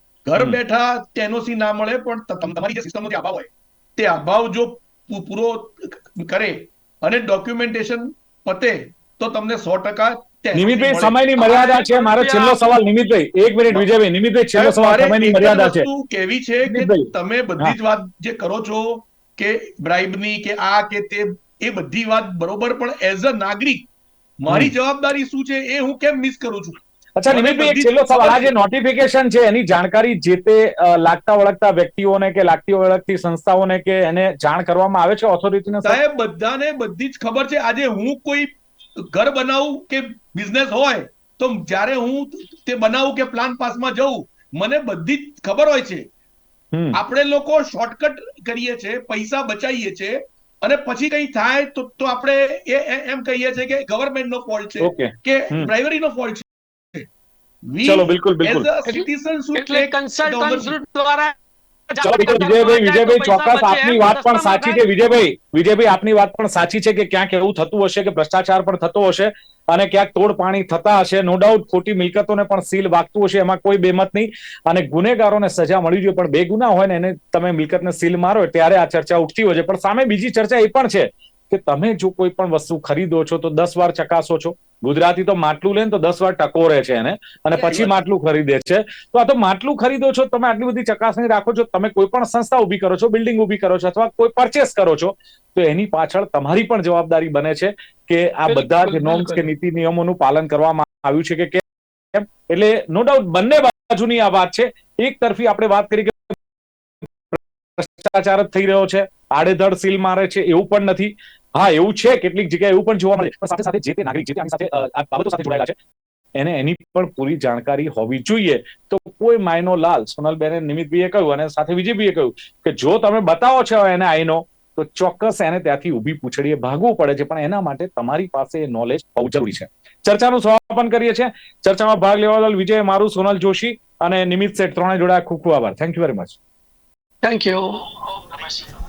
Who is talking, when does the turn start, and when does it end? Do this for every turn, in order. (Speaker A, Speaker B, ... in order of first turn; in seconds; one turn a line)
Speaker A: 0.2-11.2
Speaker B: 10.5-15.8
Speaker C: 11.4-12.6
Speaker A: 14.5-23.9
Speaker B: 16.7-17.1
Speaker A: 24.4-26.8
Speaker B: 27.2-36.0
Speaker A: 27.3-28.5
Speaker A: 35.8-46.0
Speaker A: 46.9-57.1
Speaker B: 54.8-55.7
Speaker A: 57.7-60.7
Speaker B: 57.8-58.7
Speaker C: 58.9-61.3
Speaker C: 61.9-64.8
Speaker B: 62.0-106.3
Speaker A: 87.6-87.9
Speaker C: 98.5-99.4
Speaker B: 107.3-115.7
Speaker B: 116.4-136.4
Speaker C: 137.2-138.7